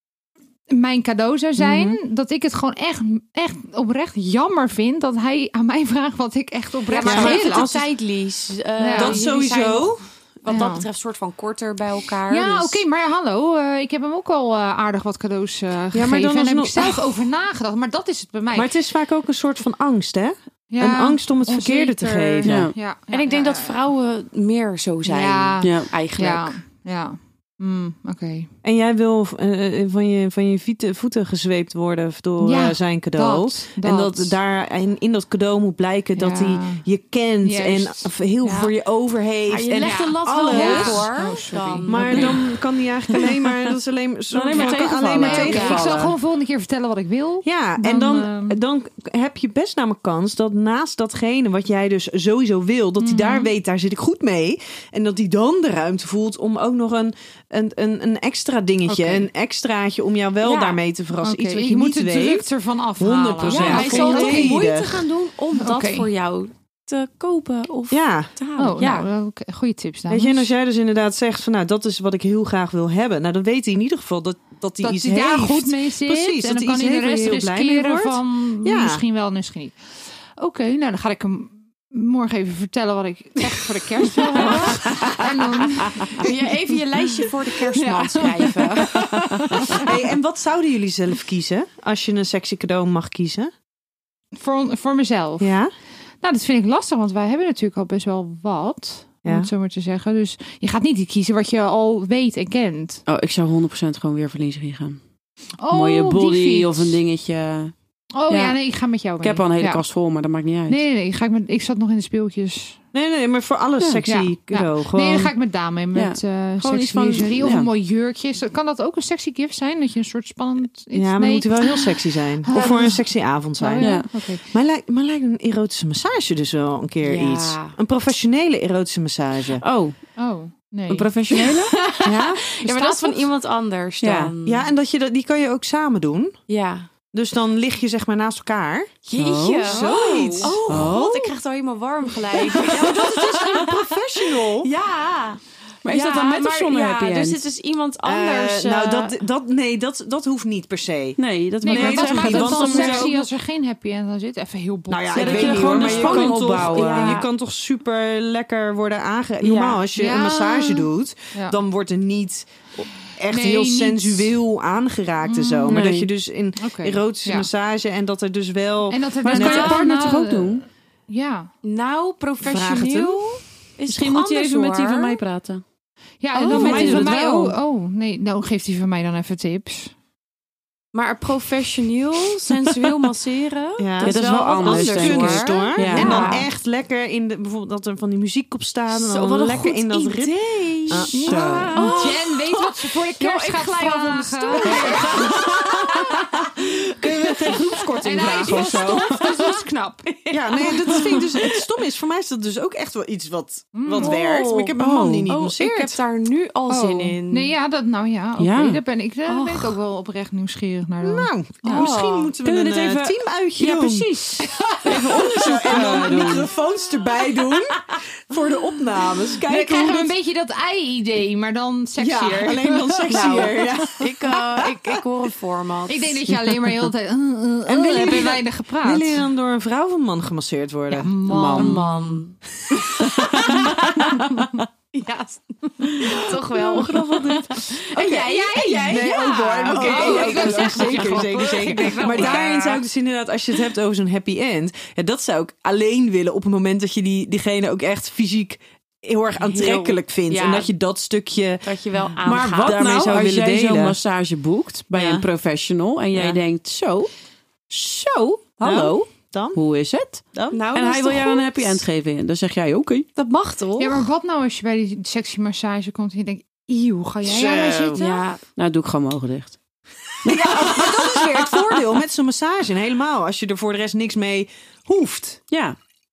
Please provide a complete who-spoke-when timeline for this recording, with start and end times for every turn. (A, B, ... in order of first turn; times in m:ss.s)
0:00.7-0:07.7 A
0:01.6-0:02.0 B
0:06.9-0:12.8 C
0:07.0-0:07.9 B
0:08.8-0:09.2 A
0:08.9-0:10.0 B
0:10.4-0:10.8 A
0:12.3-0:18.7 A
0:15.9-0:17.0 B
0:18.5-0:22.7 B
0:20.7-0:23.7 A
0:22.4-0:22.7 D
0:23.1-0:26.6 C
0:25.0-0:28.5 A
0:25.6-0:25.9 D
0:28.6-0:41.1 B
0:32.4-0:34.4 A
0:36.2-0:36.8 A
0:37.4-0:38.7 A
0:39.5-0:42.6 C
0:39.8-0:42.3 A
0:41.8-0:46.1 B
0:42.0-0:42.3 D
0:44.3-0:45.9 D
0:44.5-0:45.8 C
0:45.1-0:48.6 A
0:47.4-1:02.5 B
0:53.0-0:53.5 A
0:58.9-0:59.2 A
1:00.4-1:00.8 C
1:01.2-1:04.6 A
1:03.0-1:05.0 B
1:03.4-1:09.1 C
1:05.6-1:06.1 A
1:07.9-1:08.3 B
1:08.6-1:10.5 A
1:10.1-1:19.0 B
1:14.8-1:19.8 A
1:20.4-1:26.4 A
1:24.3-1:25.1 C
1:24.4-1:25.2 B
1:26.1-1:29.5 C
1:27.7-1:29.9 A
1:29.7-1:33.5 B
1:34.3-1:35.6 A
1:35.4-1:35.7 B
1:36.2-1:43.0 A
1:39.2-1:39.5 B
1:43.1-1:45.0 D
1:45.6-1:47.0 A
1:45.7-1:47.7 D
1:48.1-1:49.8 A
1:48.3-1:48.6 D
1:49.2-1:50.8 D
1:50.7-1:52.8 A
1:52.9-1:55.3 B
1:54.0-2:04.4 A
1:55.9-1:57.7 D
2:00.9-2:09.6 B
2:03.8-2:04.1 D
2:07.0-2:07.7 C
2:09.6-2:10.0 D
2:10.2-2:11.1 A
2:10.9-2:11.8 D
2:11.3-2:14.7 C
2:12.0-2:12.5 B
2:12.6-2:13.1 A
2:14.0-2:14.3 D
2:14.4-2:16.4 B
2:16.5-2:16.9 C
2:17.1-2:18.9 B
2:19.0-2:29.2 C
2:19.1-2:19.7 D
2:19.6-2:21.0 B
2:19.7-2:20.5 A
2:20.7-2:21.3 D
2:22.5-2:24.7 B
2:25.8-2:27.4 D
2:28.0-2:33.2 B
2:31.2-2:33.2 D
2:31.6-2:35.9 A
2:34.9-2:49.6 B
2:35.1-2:37.2 D
2:35.6-2:37.3 C
2:39.4-2:39.8 C
2:39.9-2:41.6 A
2:43.3-2:44.4 A
2:45.2-2:45.8 A
2:45.7-2:46.1 D
2:46.6-2:47.5 A
2:48.9-2:51.5 A
2:49.2-2:50.6 D
2:49.4-2:49.8 C
2:51.6-2:55.2 C
2:52.4-2:53.4 B
2:53.9-2:55.6 D
2:56.2-2:59.9 A
2:56.4-2:57.5 D
2:56.4-2:57.1 C
2:56.5-2:57.1 B
3:00.9-3:06.5 C
3:03.8-3:10.3 B
3:04.0-3:06.3 D
3:05.7-3:06.4 A
3:08.9-3:17.6 C
3:10.9-3:11.9 B
3:11.1-3:15.4 A
3:14.8-3:15.0 B
3:17.0-3:19.3 D
3:18.0-3:20.0 A
3:20.1-3:21.6 C
3:20.3-3:26.0 B
3:23.7-3:24.2 A
3:24.0-3:24.8 C
3:24.8-3:25.3 D
3:25.3-3:27.5 C
3:26.7-3:31.8 A
3:28.4-3:28.8 D
3:31.0-3:34.3 B
3:31.6-3:32.3 C
3:32.4-3:36.5 D
3:34.4-3:36.3 A
3:34.8-3:40.1 B
3:39.4-3:43.3 A
3:42.0-3:45.0 B
3:43.1-3:46.2 C
3:45.9-3:49.2 A
3:47.6-3:51.1 B
3:50.9-3:51.9 A
3:51.2-3:52.2 D
3:51.5-3:52.4 C
3:52.7-3:53.7 B
3:53.0-3:54.2 C
3:53.2-3:53.7 D
3:54.9-4:02.4 C
3:56.1-4:11.6 B
3:57.9-4:02.8 A
4:09.4-4:10.7 C
4:11.6-4:13.0 C
4:12.2-4:17.1 D
4:12.6-4:14.0 B
4:14.9-4:15.3 B
4:16.1-4:16.4 B
4:17.7-4:19.6 B
4:18.6-4:20.2 D
4:20.5-4:21.8 C
4:20.7-4:23.1 D
4:23.2-4:24.0 C
4:23.8-4:28.2 A
4:27.2-4:28.0 B
4:28.0-4:28.4 C
4:28.6-4:29.6 D
4:30.2-4:31.5 D
4:30.2-4:35.4 B
4:35.5-4:35.8 D